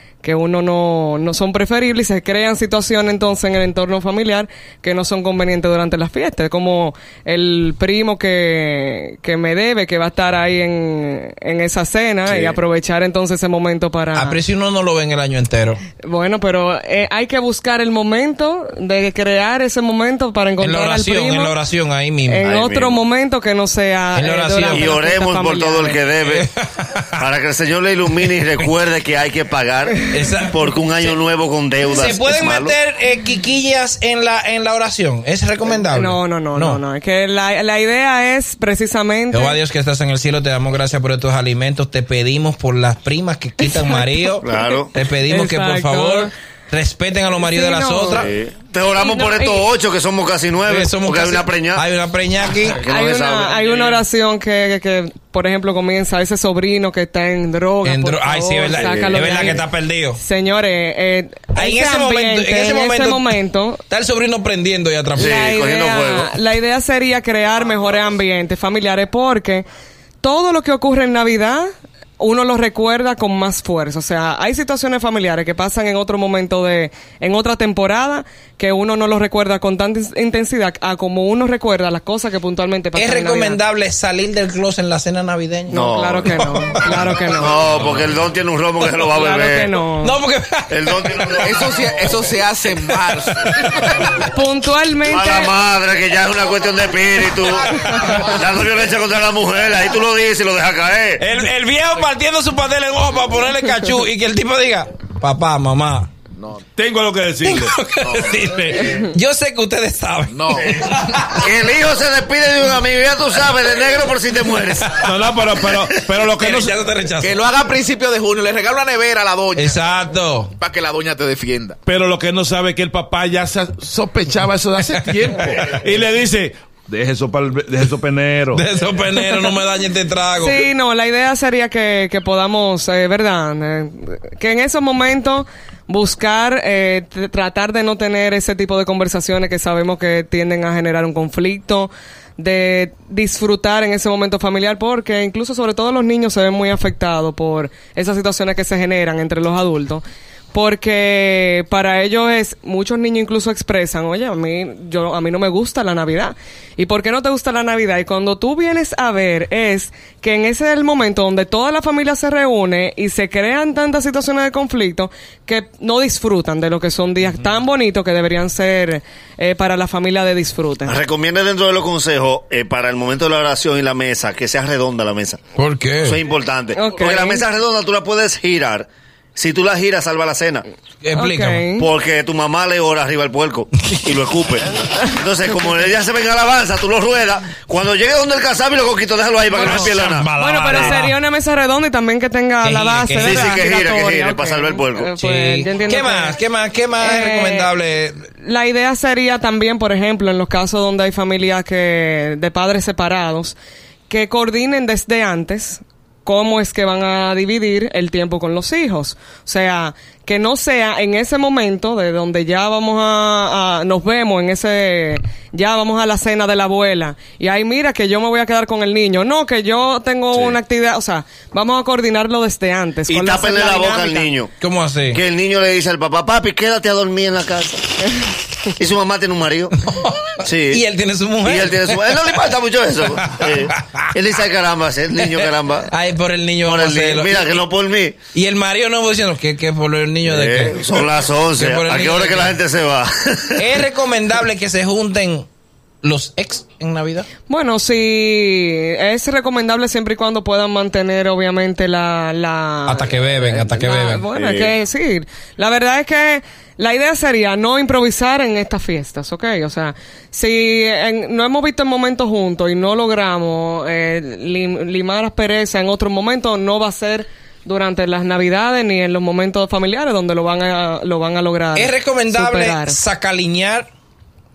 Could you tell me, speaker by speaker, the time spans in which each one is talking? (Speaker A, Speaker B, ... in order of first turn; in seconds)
Speaker A: 0.2-14.4, 16.0-21.6, 22.3-26.0, 35.9-39.6, 43.6-46.3, 47.4-48.3, 49.0-49.7, 52.9-59.6, 60.2-63.8, 65.2-69.7, 70.2-71.7, 72.2-83.6, 85.7-87.6, 89.1-90.2, 94.2-95.5, 130.4-171.0, 176.7-177.5, 181.1-181.9, 189.7-196.4, 197.0-197.7, 198.4-203.6, 204.1-224.3, 247.5-273.0
Speaker B: 12.3-12.6, 22.4-23.0, 24.7-26.5, 27.2-32.8, 44.4-44.9, 48.2-51.8, 52.7-53.8, 58.7-59.5, 65.2-66.3, 85.7-86.4, 87.3-89.7, 90.7-91.6, 95.0-101.2, 111.4-115.0, 170.9-175.4, 176.0-180.6, 181.8-191.0, 193.2-195.1, 220.3-220.6, 223.1-224.5, 225.1-228.0, 228.8-229.7, 230.4-230.8, 231.4-235.9, 236.6-238.2, 240.2-243.7, 254.3-254.7
Speaker C: 14.1-15.8, 20.6-22.4, 24.1-24.9, 26.2-27.2, 30.1-31.1, 31.9-36.8, 39.3-48.3, 50.7-52.8, 57.8-60.2, 61.5-63.3, 63.9-65.4, 83.0-86.8, 90.0-91.4, 92.8-94.1, 97.8-98.4, 101.2-106.1, 107.4-111.4, 114.6-115.1, 116.1-117.4, 119.5-120.5, 124.9-125.3, 128.5-130.7, 175.6-176.2, 181.0-181.7, 189.5-191.2, 192.6-193.6, 195.2-198.3, 224.6-225.2, 229.8-232.2, 233.2-234.0, 235.2-237.6, 238.3-242.6, 243.6-245.5, 246.0-247.3, 252.9-254.3, 271.8-273.9
Speaker D: 91.4-93.4, 106.4-106.6, 108.0-108.4, 110.3-110.8, 117.2-119.8, 120.6-121.8
Speaker E: 106.8-107.8, 115.0-116.8, 121.9-128.6